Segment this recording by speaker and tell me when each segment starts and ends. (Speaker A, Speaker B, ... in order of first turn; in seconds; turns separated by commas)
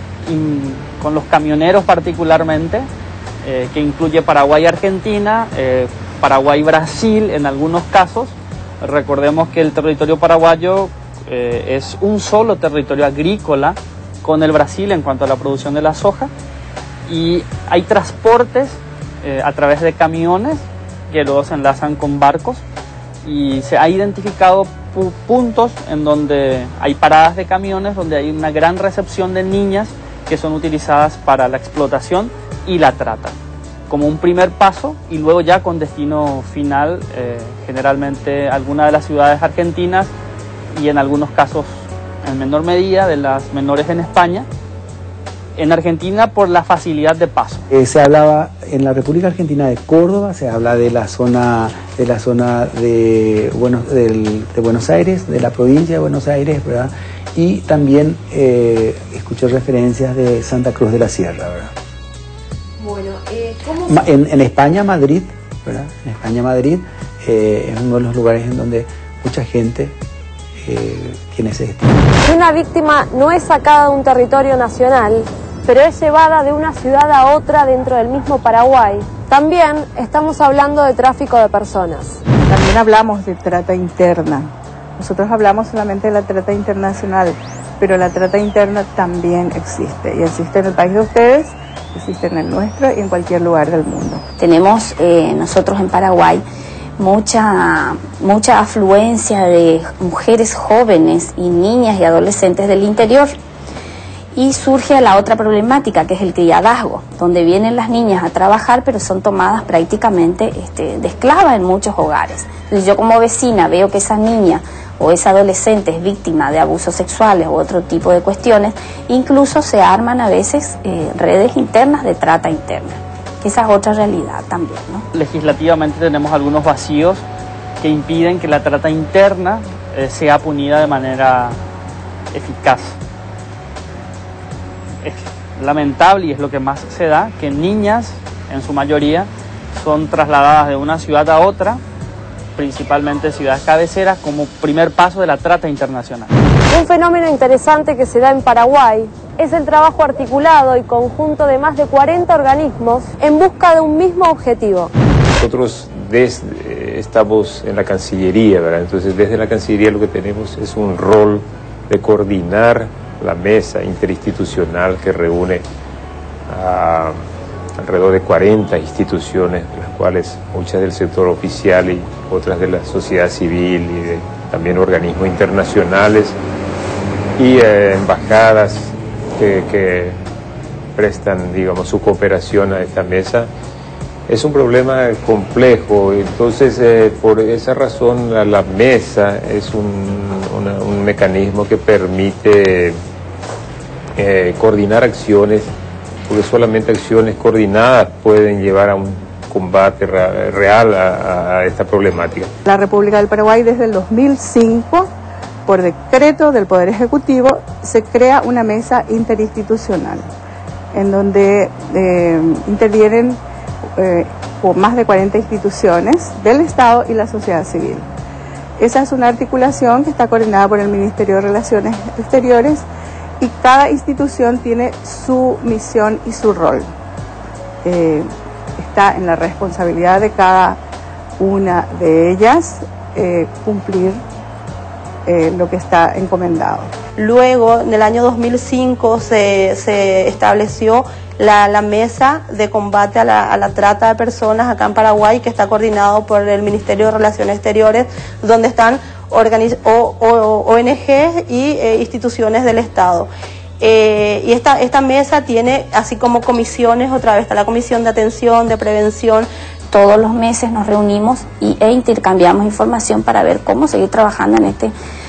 Speaker A: 0.3-2.9, Speaker A: 3.4-16.3, Speaker A: 17.1-22.6, Speaker A: 23.2-33.3, Speaker A: 33.9-40.1, Speaker A: 40.7-41.7, Speaker A: 42.2-44.5, Speaker A: 45.6-47.6, Speaker B: 47.7-61.7, Speaker B: 63.6-70.0, Speaker B: 70.6-72.0, Speaker C: 72.2-82.2, Speaker D: 82.5-94.2, Speaker E: 94.4-96.4, Speaker E: 97.0-103.3, Speaker E: 104.3-125.0, Speaker A: 125.1-127.2, Speaker A: 127.8-131.6, Speaker A: 132.3-133.0, Speaker A: 135.0-141.8, Speaker A: 142.6-146.3, Speaker C: 146.7-154.9, Speaker F: 155.3-165.6, Speaker F: 166.5-167.2, Speaker F: 167.8-176.4, Speaker F: 177.4-180.2, Speaker F: 180.9-183.5, Speaker F: 184.3-192.9, Speaker F: 194.2-195.7, Speaker F: 196.3-202.5, Speaker D: 202.7-205.1, Speaker D: 205.7-210.3, Speaker D: 210.9-213.4, Speaker D: 214.0-218.1, Speaker D: 218.8-222.9, Speaker D: 223.4-226.9, Speaker D: 227.8-228.3, Speaker D: 228.8-230.8, Speaker D: 231.4-234.2, Speaker D: 235.3-236.9, Speaker G: 237.2-259.5, Speaker E: 259.9-264.9